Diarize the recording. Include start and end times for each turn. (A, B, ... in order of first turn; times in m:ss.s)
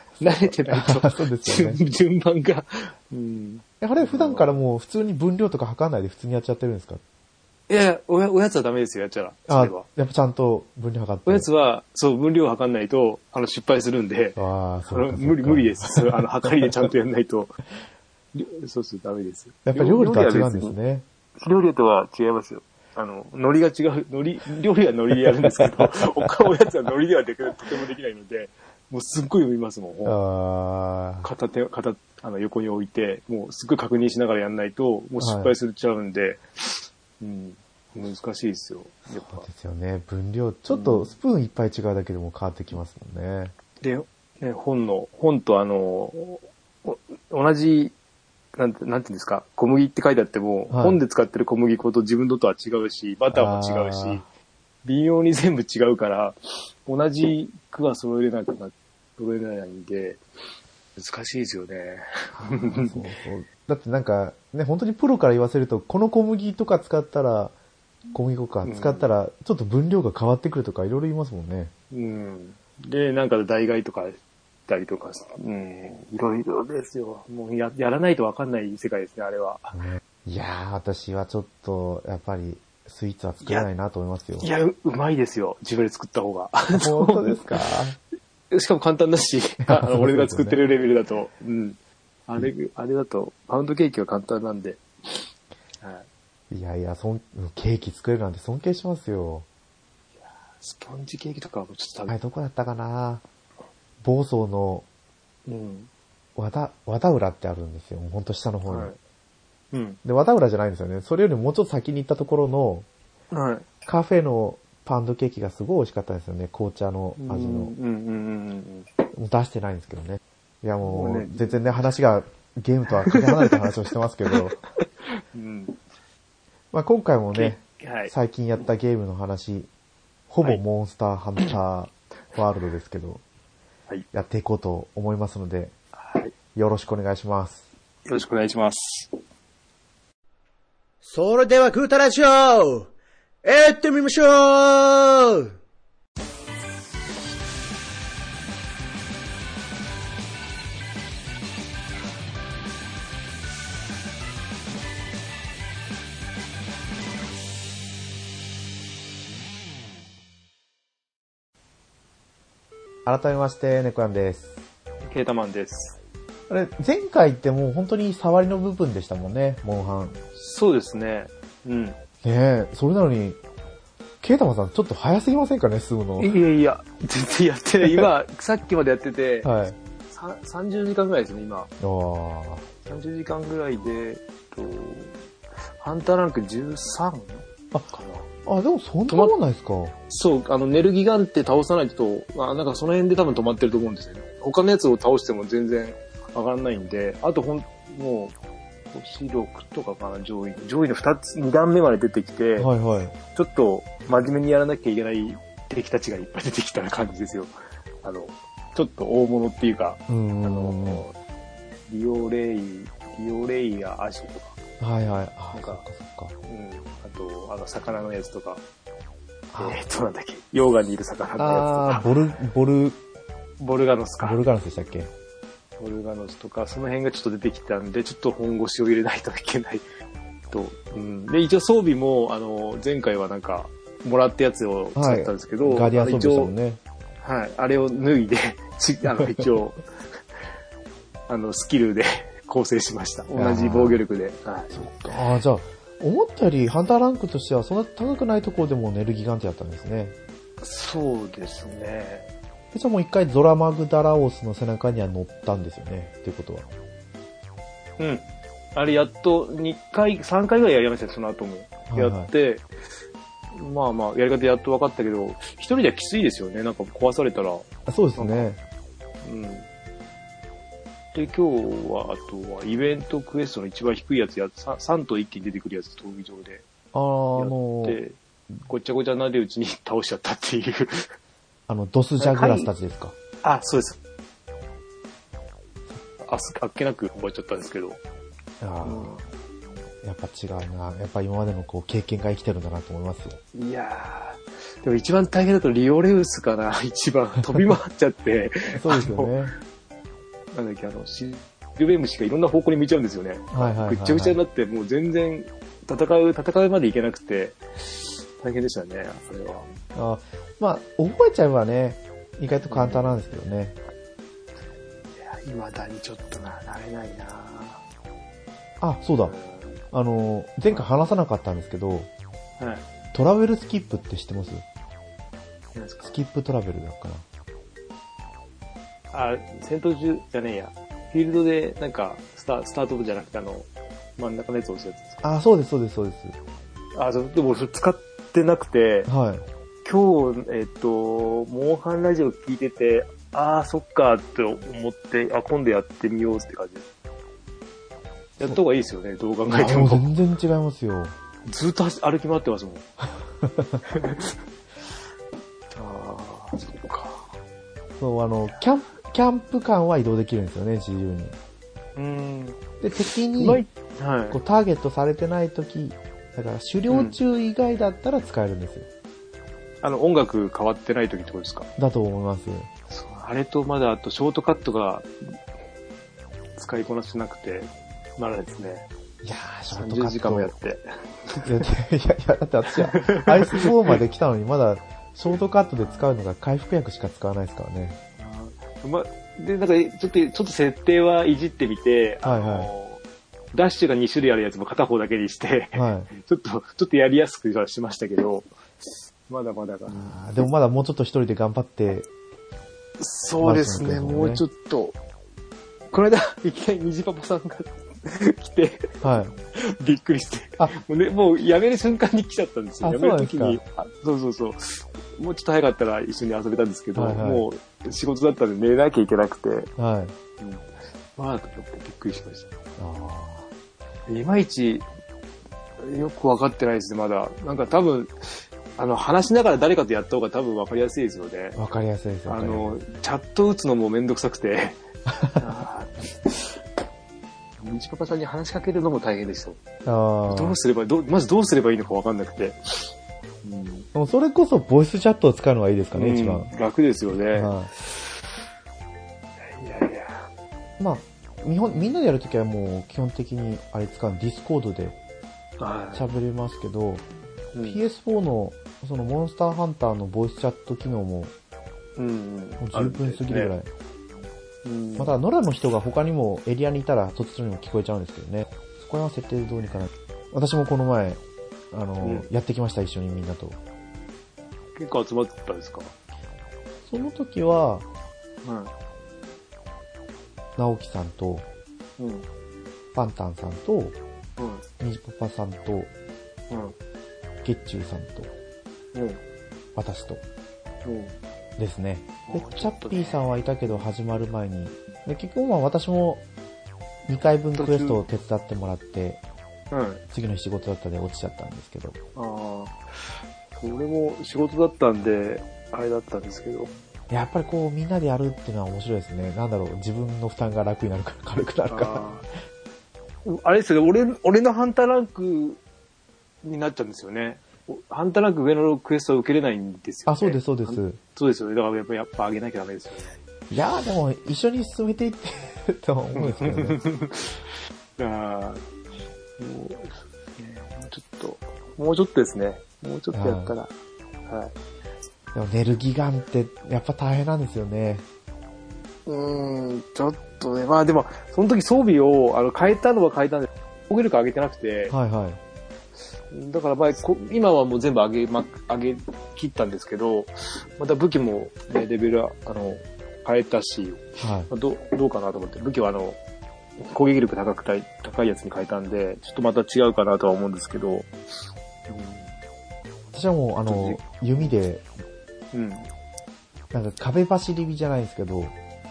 0:00.2-0:04.6 A
0:00.7-0:01.8 B
0:03.8-0:07.0 B
0:07.7-0:09.8 A
0:09.5-0:11.5 B
0:11.2-0:14.4 A
0:14.4-0:16.5 B
0:14.9-0:17.6 A
0:18.3-0:20.7 A
0:19.6-0:21.0 B
0:21.4-0:30.2 A
0:30.0-0:31.3 B
0:31.2-0:39.4 A
0:35.2-0:35.5 B
0:39.1-0:43.5 B
0:40.7-0:41.1 A
0:43.8-0:48.0 A
0:48.6-0:54.2 A
0:50.7-0:51.0 B
0:53.3-0:54.2 B
0:54.8-1:00.2 A
1:01.0-1:03.0 A
1:02.4-1:07.5 B
1:08.1-1:11.7 B
1:08.6-1:09.1 A
1:11.9-1:19.8 A
1:19.7-1:24.5 B
1:24.4-1:27.7 A
1:26.7-1:28.0 B
1:28.5-1:35.3 A
1:29.6-1:30.6 B
1:35.8-1:36.0 A
1:36.5-1:39.4 B
1:40.6-1:42.2 A
1:42.1-1:43.2 B
1:44.0-1:44.8 B
1:45.5-1:45.9 A
1:46.4-1:48.9 B
1:48.7-1:49.0 A
1:49.7-1:50.0 A
1:50.0-1:52.9 B
1:53.3-1:53.7 A
1:53.8-1:57.7 B
1:57.2-1:58.9 A
1:59.1-2:04.6 B
2:00.8-2:01.6 A
2:03.1-2:03.6 A
2:05.0-2:05.8 A
2:06.7-2:09.7 B
2:07.3-2:08.1 A
2:10.3-2:13.2 B
2:14.1-2:15.7 B
2:16.0-2:16.3 A
2:16.5-2:17.6 B
2:18.0-2:19.1 A
2:21.0-2:22.9 C
2:23.4-2:25.5 C
2:43.0-2:44.6 B
2:45.0-2:46.0 A
2:46.5-2:50.2 B
2:50.3-2:52.0 A
2:52.2-2:53.4 B
2:54.2-2:56.3 B
2:56.2-2:59.5 A
2:59.4-2:59.8 B
3:00.1-3:01.7 A
3:01.8-3:02.6 B
3:02.8-3:05.2 A
3:05.8-3:08.3 A
3:08.4-3:10.0 B
3:09.1-3:09.3 A
3:10.1-3:18.3 A
3:18.9-3:22.7 A
3:22.6-3:23.1 B
3:23.3-3:31.1 A
3:30.1-3:31.0 B
3:31.9-3:34.5 A
3:34.8-3:36.3 B
3:35.5-3:35.8 A
3:36.4-3:38.6 A
3:39.5-3:39.8 B
3:39.6-3:42.1 A
3:41.4-3:43.0 B
3:43.6-3:44.4 A
3:44.2-3:45.1 B
3:45.8-3:49.8 A
3:50.5-3:56.5 A
3:54.9-3:56.8 B
3:57.2-3:59.8 A
3:59.2-3:59.5 B
4:01.3-4:05.2 A
4:03.3-4:04.0 B
4:04.7-4:10.2 B
4:10.6-4:12.3 A
4:12.7-4:16.7 B
4:18.0-4:22.7 A
4:21.9-4:22.3 B
4:23.5-4:28.5 A
4:27.9-4:28.6 B
4:29.2-4:29.7 A
4:31.1-4:36.6 A
4:36.9-4:38.0 B
4:37.4-4:41.1 A
4:41.7-4:43.1 B
4:42.2-4:42.7 A
4:43.4-4:44.0 A
4:46.2-4:48.0 A
4:48.6-4:49.2 B
4:48.8-4:49.2 A
4:50.0-4:53.4 B
4:53.5-4:59.3 A
4:58.8-4:59.5 B
5:00.5-5:09.7 A
5:03.5-5:04.4 B
5:09.9-5:13.8 B
5:12.7-5:13.2 A
5:15.2-5:17.8 A
5:18.8-5:19.3 B
5:19.2-5:19.8 A
5:19.9-5:22.1 B
5:22.6-5:22.8 A
5:23.1-5:24.6 B
5:25.7-5:26.1 A
5:26.0-5:27.2 B
5:29.1-5:35.2 A
5:35.2-5:36.4 B
5:36.9-5:39.1 A
5:39.1-5:39.4 B
5:39.8-5:46.8 A
5:48.4-5:50.0 A
5:49.5-5:51.1 B
5:51.4-5:52.8 A
5:53.4-5:53.8 B
5:53.9-5:54.4 A
5:55.7-5:57.3 A
5:58.0-6:01.3 B
6:02.0-6:02.6 A
6:02.8-6:03.6 B
6:03.4-6:04.4 A
6:04.3-6:08.9 B
6:06.9-6:07.2 A
6:09.8-6:11.7 A
6:11.8-6:12.7 B
6:12.9-6:15.4 A
6:16.6-6:18.8 A
6:19.2-6:20.5 B
6:19.7-6:21.7 A
6:21.4-6:28.0 B
6:22.9-6:24.0 A
6:28.2-6:33.0 A
6:32.2-6:32.7 B
6:33.5-6:40.5 A
6:35.7-6:36.1 B
6:39.9-6:42.1 B
6:43.0-6:45.0 A
6:43.4-6:44.4 B
6:45.9-6:49.0 A
6:49.0-6:49.3 B
6:49.5-6:59.7 A
6:52.8-6:53.6 B
6:56.9-6:57.4 B
6:59.8-7:00.1 B
7:00.4-7:02.5 A
7:02.8-7:03.5 B
7:04.1-7:04.8 A
7:05.8-7:11.6 A
7:11.5-7:12.8 B
7:12.3-7:14.8 A
7:15.3-7:16.6 A
7:17.6-7:19.6 A
7:19.8-7:20.6 B
7:20.3-7:22.9 A
7:23.4-7:23.9 A
7:23.9-7:26.5 B
7:25.9-7:28.2 A
7:27.3-7:27.7 B
7:29.4-7:30.2 A
7:30.8-7:35.0 B
7:31.7-7:32.0 A
7:35.6-7:36.0 A
7:35.9-7:37.0 B
7:37.5-7:37.8 A
7:37.6-7:41.3 B
7:42.0-7:43.5 A
7:42.6-7:43.7 B
7:44.6-7:45.2 A
7:45.0-7:51.2 B
7:51.7-7:53.6 B
7:52.0-7:52.3 A
7:54.8-7:55.9 A
7:56.8-7:57.8 B
7:58.4-7:58.7 A
8:00.6-8:01.4 B
8:02.0-8:02.3 A
8:02.9-8:04.0 B
8:04.4-8:04.6 A
8:04.8-8:05.9 B
8:06.5-8:06.8 A
8:07.4-8:08.3 B
8:08.9-8:09.2 A
8:09.7-8:10.2 B
8:10.8-8:11.1 A
8:11.6-8:16.2 B
8:12.3-8:13.9 A
8:17.1-8:19.2 B
8:17.5-8:18.0 A
8:19.7-8:20.0 A
8:20.1-8:22.0 B
8:22.2-8:22.8 A
8:23.5-8:26.7 A
8:27.1-8:32.0 B
8:31.7-8:32.2 A
8:33.2-8:35.6 A
8:36.4-8:43.1 A
8:40.1-8:41.0 B
8:43.5-8:46.8 B
8:46.2-8:47.4 A
8:48.0-8:48.6 A
8:49.4-8:53.7 A
8:53.1-8:53.5 B
8:54.3-8:54.5 A
8:55.3-8:58.0 B
8:59.0-9:04.9 A
9:04.9-9:05.4 B
9:06.3-9:16.2 A
9:14.2-9:14.5 B
9:16.8-9:21.1 A
9:21.9-9:22.3 A
9:23.1-9:24.9 B
9:23.6-9:24.4 A
9:25.5-9:25.9 A
9:26.7-9:28.5 B